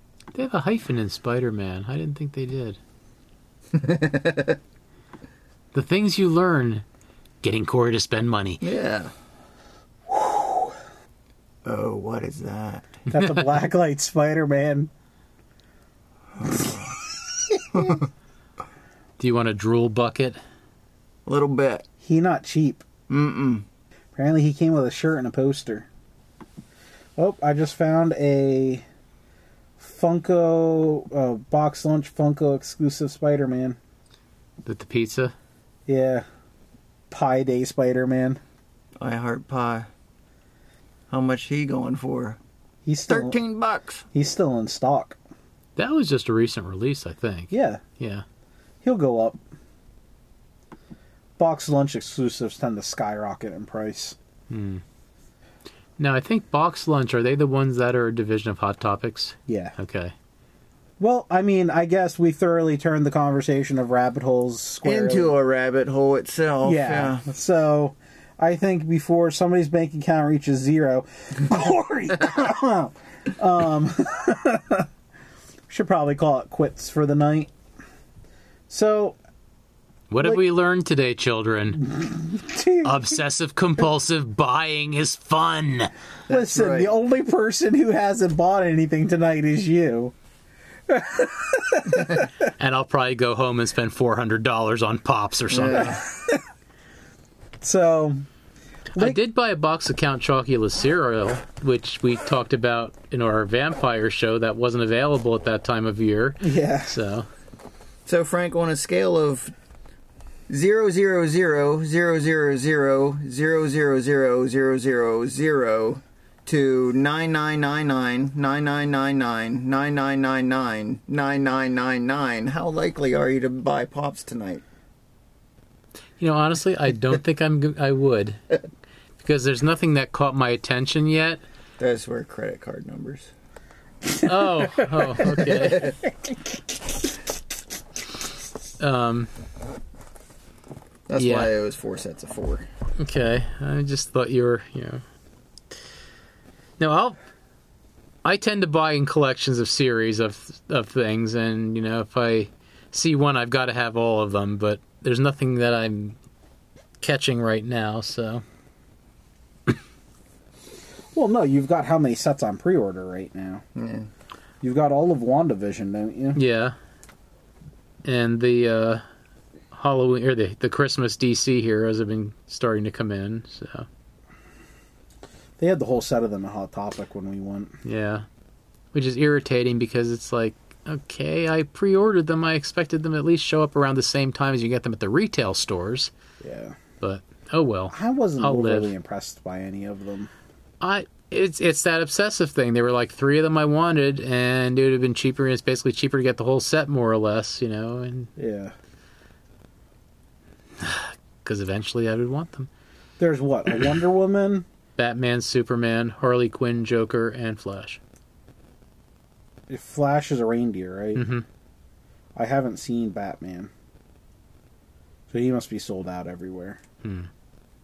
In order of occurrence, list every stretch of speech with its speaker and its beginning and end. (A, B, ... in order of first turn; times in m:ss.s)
0:00.3-0:02.8 A
0:03.7-0:04.6 B
0:05.7-0:06.8 A
0:07.4-0:08.6 A
0:08.6-0:09.1 B
0:10.1-0:10.6 C
0:11.6-0:13.0 B
0:13.1-0:14.9 C
0:13.1-0:13.6 A
0:16.4-0:16.9 B
0:17.7-0:18.0 B
0:19.2-0:20.4 A
0:21.2-0:21.8 B
0:22.0-0:22.8 C
0:23.1-0:23.6 B
0:24.1-0:25.9 C
0:27.2-0:28.8 C
0:29.8-0:33.8 C
0:34.6-0:35.3 A
0:35.9-0:36.2 C
0:37.1-0:38.4 C
0:39.0-0:39.9 B
0:41.1-0:42.4 B
0:42.8-0:43.4 C
0:43.1-0:44.0 B
0:44.1-0:45.2 C
0:45.8-0:48.2 A
0:47.5-0:47.8 C
0:48.8-0:49.4 C
0:51.4-0:54.2 C
0:54.5-0:54.8 A
0:56.0-1:00.1 A
0:59.5-0:59.7 C
1:01.0-1:05.4 C
1:04.8-1:07.2 B
1:06.6-1:14.9 C
1:15.7-1:17.5 C
1:18.7-1:19.2 C
1:20.1-1:21.9 A
1:21.8-1:23.1 C
1:22.8-1:25.9 A
1:26.3-1:26.9 B
1:26.3-1:30.1 C
1:30.9-1:32.2 C
1:32.5-1:36.0 A
1:35.5-1:36.0 B
1:36.0-1:36.4 C
1:37.6-1:38.2 C
1:38.9-1:39.2 C
1:38.9-1:47.3 A
1:46.4-1:47.0 C
1:48.0-1:49.5 B
1:50.5-2:04.6 B
2:06.2-2:08.4 A
2:09.2-2:11.4 A
2:11.8-2:13.3 B
2:14.2-2:15.9 A
2:15.2-2:16.0 B
2:18.8-2:19.3 A
2:21.1-2:22.7 B
2:21.2-2:21.5 A
2:23.0-2:25.0 A
2:26.8-2:27.2 A
2:28.2-2:36.2 A
2:37.0-2:38.4 A
2:41.1-2:43.6 C
2:43.8-2:44.1 B
2:44.6-2:46.4 C
2:46.3-2:46.8 A
2:48.0-2:49.0 A
2:49.7-2:53.9 A
2:55.6-2:57.8 C
2:57.8-2:58.2 A
2:58.9-3:06.1 A
3:06.4-3:06.8 C
3:07.0-3:08.9 A
3:07.9-3:10.3 C
3:10.8-3:18.3 A
3:18.4-3:18.7 C
3:20.8-3:22.7 A
3:23.2-3:24.6 C
3:25.0-3:28.0 A
3:29.7-3:31.2 C
3:31.1-3:31.4 A
3:32.4-3:33.7 C
3:35.3-3:36.8 C
3:37.0-3:37.3 A